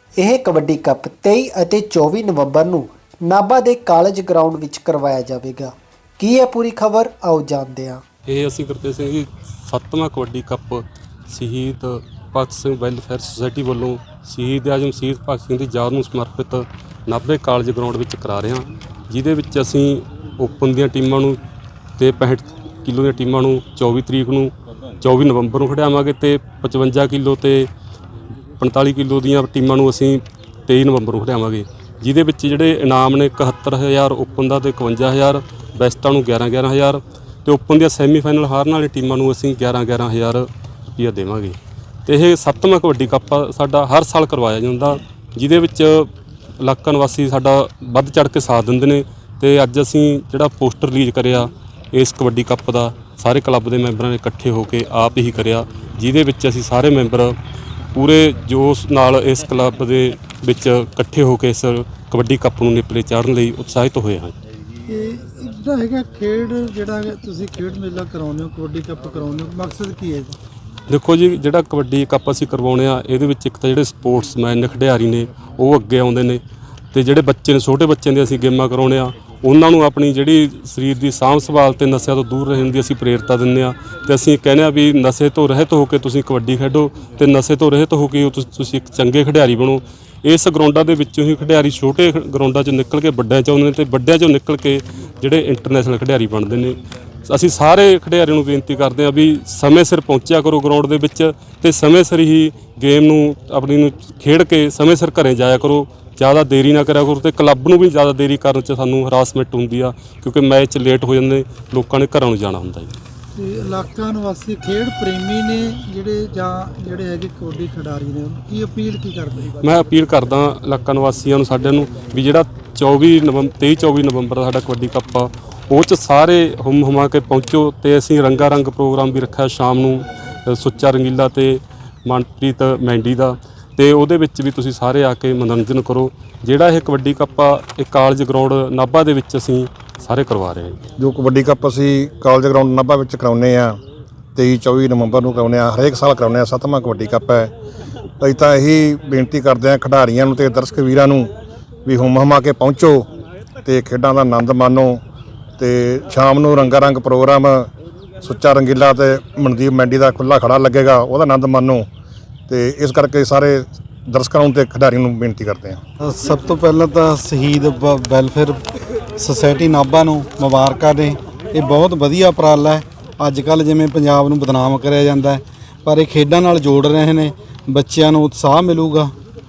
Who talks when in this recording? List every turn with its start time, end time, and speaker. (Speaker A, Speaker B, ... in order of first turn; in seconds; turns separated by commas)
Speaker A: 0.2-8.0, Speaker B: 8.3-21.4, Speaker B: 22.0-27.7, Speaker B: 28.6-57.4, Speaker B: 58.0-64.3, Speaker C: 64.9-70.4, Speaker B: 70.9-76.4, Speaker B: 76.9-112.9, Speaker C: 113.3-119.5, Speaker B: 119.6-140.8, Speaker D: 141.0-143.8, Speaker D: 144.4-147.5, Speaker D: 148.2-151.3, Speaker D: 151.9-153.1, Speaker D: 153.6-155.0, Speaker D: 155.6-157.7, Speaker D: 158.2-161.9, Speaker D: 162.5-165.8, Speaker E: 166.0-168.6, Speaker E: 169.2-179.1